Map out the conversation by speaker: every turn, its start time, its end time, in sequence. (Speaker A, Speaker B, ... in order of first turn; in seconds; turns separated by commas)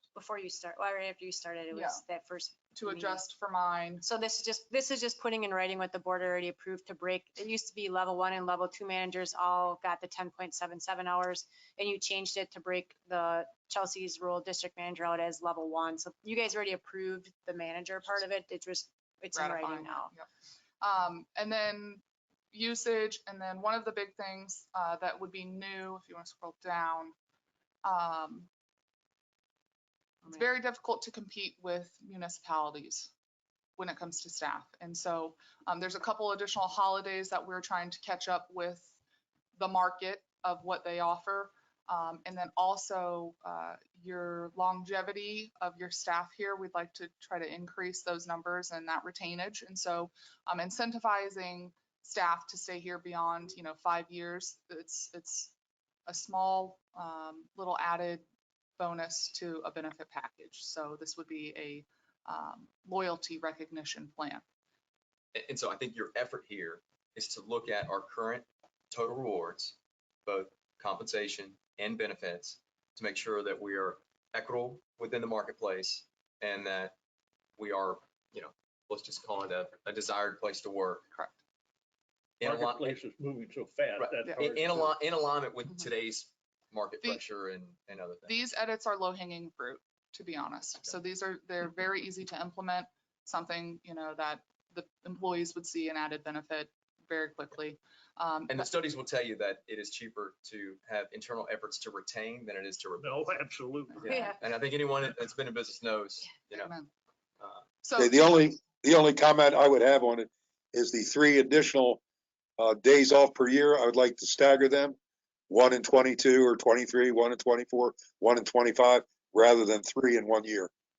Speaker A: 0.1-3.2, Speaker B: 1.7-2.0, Speaker B: 2.7-4.1, Speaker A: 4.0-20.1, Speaker B: 19.3-20.3, Speaker B: 20.8-27.1, Speaker B: 27.8-28.5, Speaker B: 30.3-33.1, Speaker B: 33.8-39.0, Speaker B: 39.6-55.5, Speaker B: 56.1-58.3, Speaker B: 58.8-64.4, Speaker C: 65.3-77.0, Speaker C: 77.6-81.1, Speaker B: 81.1-81.4, Speaker C: 82.4-83.0, Speaker D: 82.4-85.0, Speaker C: 84.0-88.3, Speaker B: 88.3-98.7, Speaker C: 98.5-103.2, Speaker D: 103.0-104.3, Speaker C: 104.0-106.7, Speaker A: 104.0-104.4, Speaker B: 106.5-106.9, Speaker B: 107.8-108.2, Speaker E: 108.0-112.0, Speaker E: 112.6-115.0, Speaker E: 115.5-120.7